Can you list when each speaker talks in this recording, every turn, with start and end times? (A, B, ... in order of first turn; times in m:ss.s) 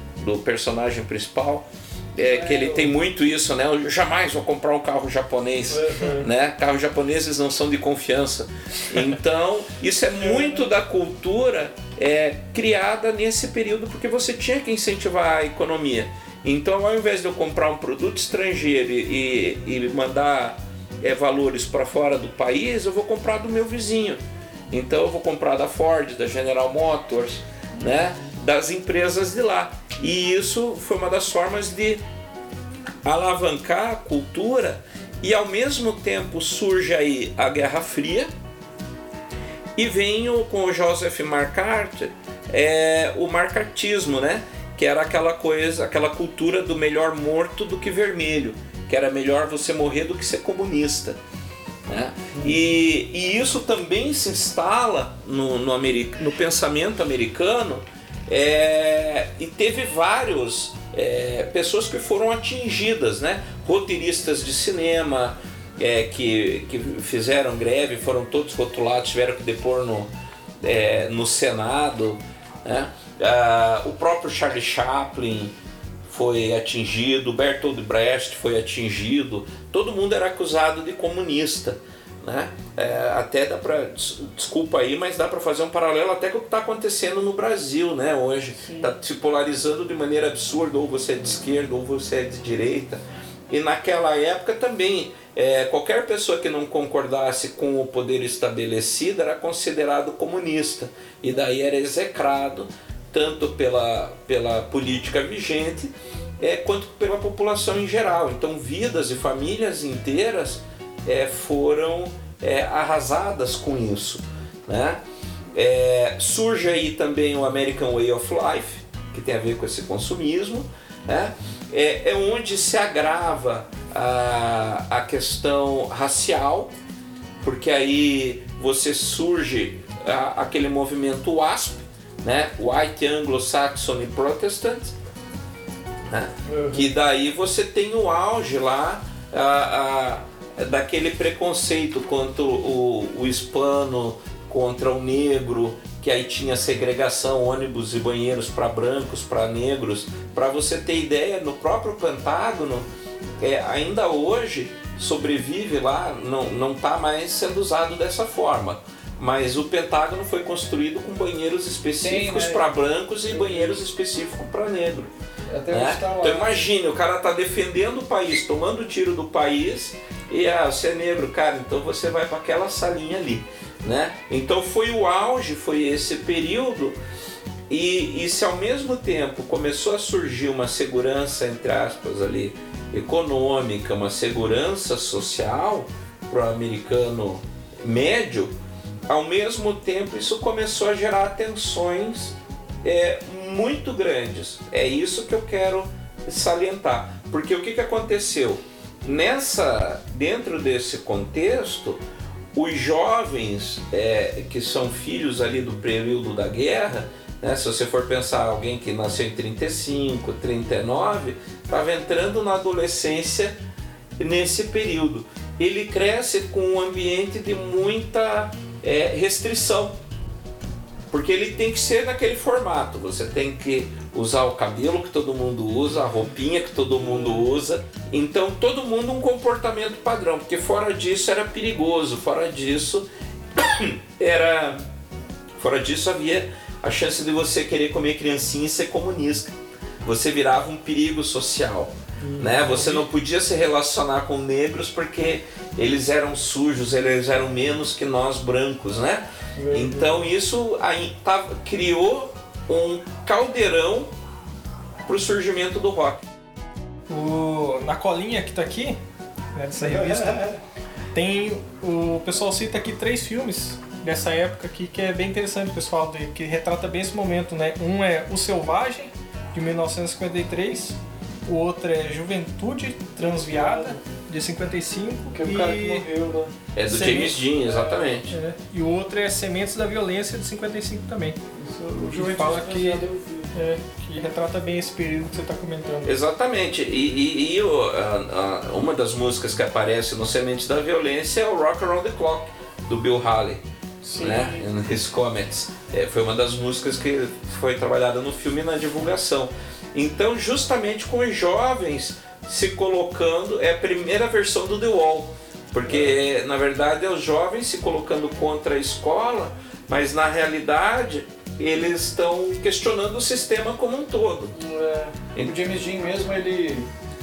0:00.2-0:32.0 A
0:02.3-0:03.0 B
0:05.7-0:06.3 B
0:10.2-0:10.6 B
0:33.0-0:38.3 A
0:39.8-0:51.2 A
0:51.9-1:15.5 A
0:52.3-0:52.6 B
1:16.1-1:55.0 A
1:55.5-2:06.7 A
2:07.4-2:14.9 A
2:16.1-2:32.9 A
2:16.5-2:17.0 B
2:33.4-2:45.1 A
2:42.0-2:43.8 B
2:45.5-2:46.6 B
2:45.7-2:57.0 A
2:57.7-3:08.6 A
3:09.1-3:22.0 A
3:22.5-3:33.6 A
3:34.2-3:40.0 A
3:41.1-3:54.8 A
3:55.6-4:14.1 A
4:02.2-4:03.1 B
4:09.6-4:10.3 B
4:15.1-4:16.3 A
4:17.1-4:19.0 C
4:19.6-4:20.5 C
4:19.8-4:20.6 B
4:21.1-4:36.1 C
4:33.5-4:34.0 B
4:35.3-4:36.5 B
4:36.8-4:38.3 A
4:36.9-4:37.5 C
4:37.6-4:38.2 B
4:38.3-4:41.4 C
4:41.5-4:43.5 B
4:42.1-4:46.2 C
4:46.0-4:53.6 A
4:54.1-4:54.5 B
4:54.2-5:14.5 A
5:05.9-5:06.2 B
5:14.5-5:16.9 B